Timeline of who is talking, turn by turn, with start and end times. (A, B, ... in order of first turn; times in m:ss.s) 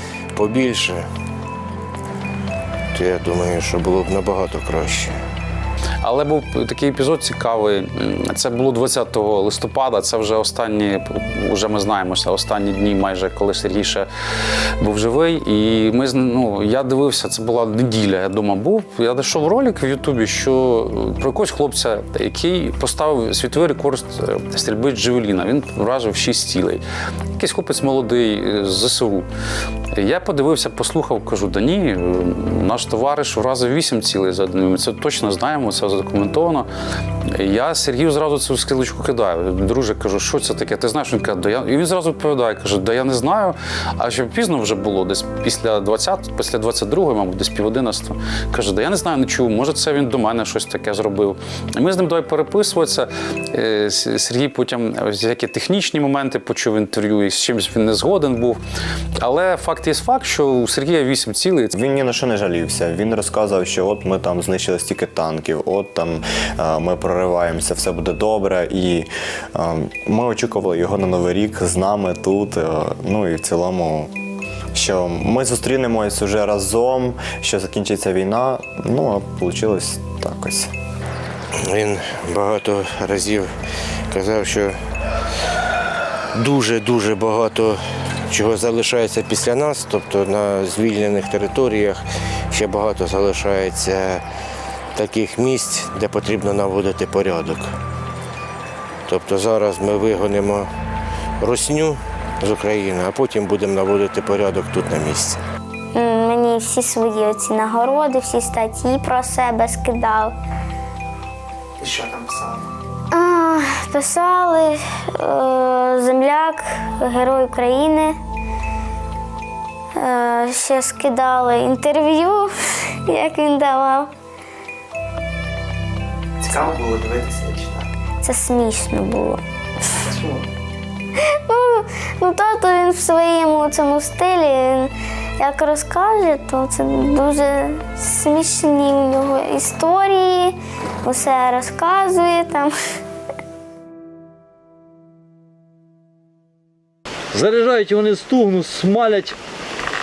0:00.4-0:01.1 A
0:02.9-0:05.1 A
0:06.0-0:14.1 B
0:14.8-0:26.8 B
0:27.4-0:29.3 B
0:29.9-0:36.7 B
0:37.2-0:58.6 B
0:59.2-1:01.7 B
1:01.7-1:14.1 C
1:14.7-1:20.7 C
1:21.6-1:23.5 A
1:24.1-1:24.8 A
1:26.4-1:34.2 A
1:34.9-1:37.7 A
1:39.1-1:40.7 A
1:41.4-1:45.4 A
1:45.9-1:50.3 D
1:51.8-1:52.7 E
1:53.1-1:58.2 D
2:00.0-2:02.5 D
2:03.1-2:04.1 D
2:06.4-2:07.9 E
2:08.2-2:09.4 D
2:10.1-2:10.4 E
2:11.5-2:22.7 D
2:27.3-2:29.4 F